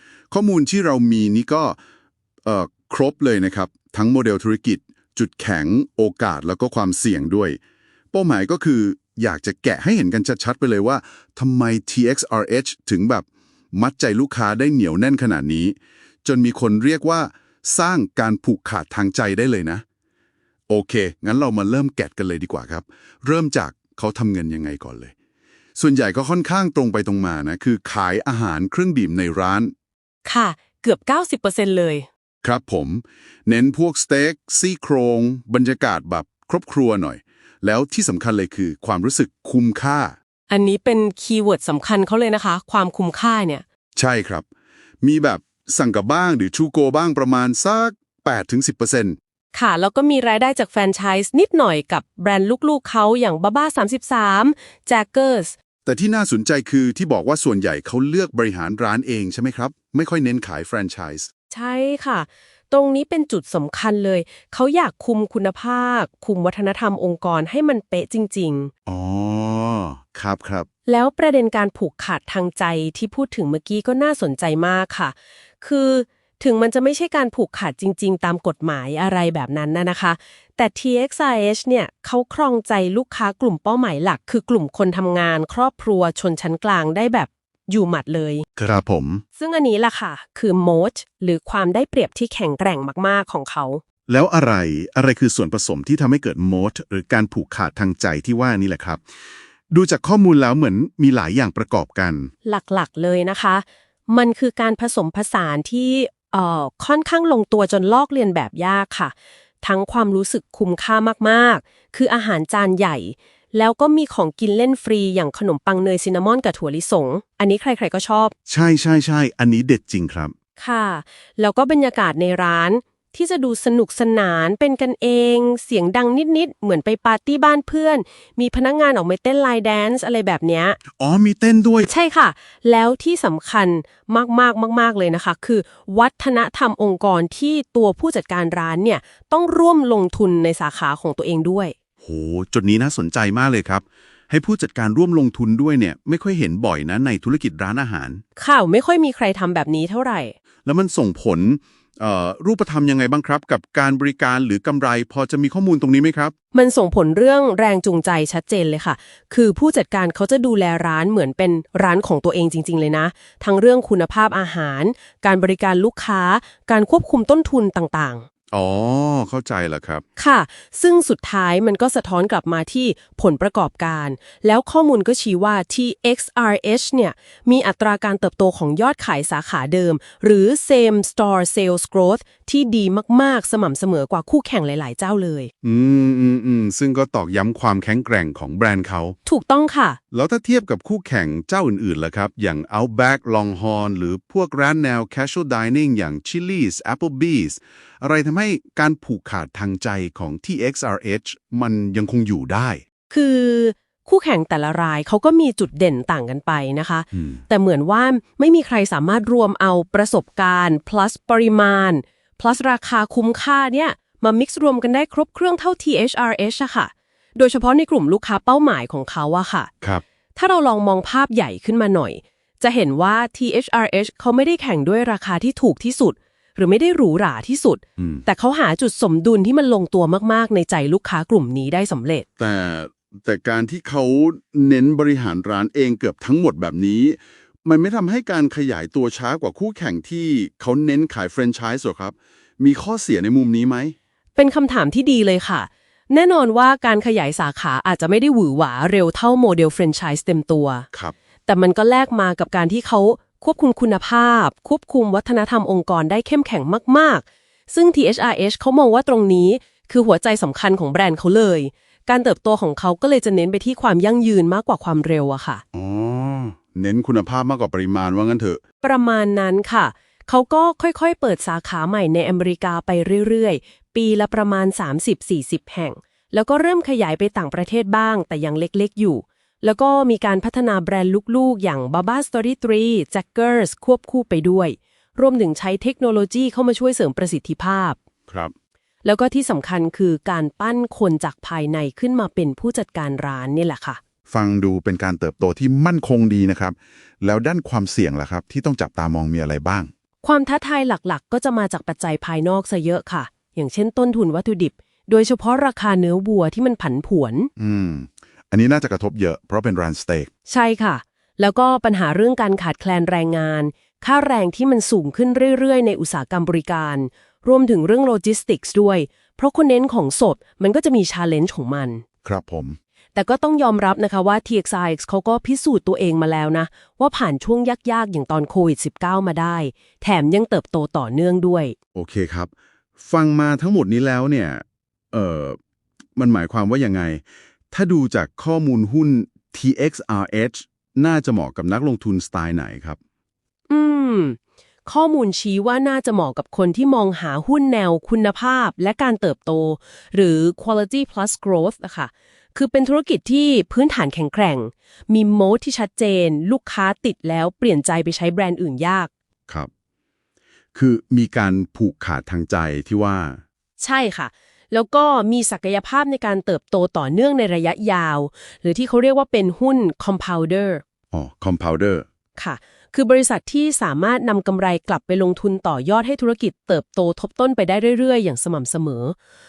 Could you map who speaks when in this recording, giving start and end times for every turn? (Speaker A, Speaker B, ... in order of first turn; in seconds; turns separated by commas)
Speaker A: 0.3-1.8, Speaker A: 2.4-7.6, Speaker A: 8.1-19.8, Speaker A: 20.7-25.1, Speaker A: 25.8-29.7, Speaker B: 30.2-32.1, Speaker A: 32.4-40.1, Speaker B: 40.5-43.6, Speaker A: 44.0-44.5, Speaker A: 45.0-49.2, Speaker B: 49.5-55.5, Speaker A: 55.8-61.3, Speaker B: 61.5-68.7, Speaker A: 68.8-70.7, Speaker B: 70.9-88.4, Speaker A: 88.6-89.2, Speaker B: 89.4-93.8, Speaker A: 94.1-99.0, Speaker A: 99.7-102.3, Speaker B: 102.4-118.3, Speaker A: 118.5-120.3, Speaker B: 120.6-130.8, Speaker A: 130.9-131.9, Speaker B: 131.9-141.7, Speaker A: 142.0-148.2, Speaker B: 148.4-150.3, Speaker A: 150.6-156.3, Speaker B: 156.5-168.2, Speaker A: 168.5-170.0, Speaker B: 170.2-185.5, Speaker A: 185.6-189.2, Speaker B: 189.2-190.0, Speaker A: 190.1-202.8, Speaker B: 203.1-219.7, Speaker A: 207.1-207.4, Speaker B: 220.3-232.2, Speaker A: 228.0-228.2, Speaker A: 232.4-243.9, Speaker B: 244.3-250.8, Speaker B: 251.5-265.6, Speaker A: 265.7-268.6, Speaker B: 268.8-288.0, Speaker B: 289.0-294.0, Speaker A: 294.3-299.9, Speaker B: 300.2-307.5, Speaker A: 307.6-310.3, Speaker B: 310.5-322.0, Speaker A: 322.2-322.8, Speaker B: 323.1-331.7, Speaker A: 331.9-335.6, Speaker A: 336.1-343.0, Speaker B: 343.7-359.1, Speaker A: 360.7-363.4, Speaker B: 363.8-370.8, Speaker A: 371.1-372.1, Speaker B: 372.4-379.1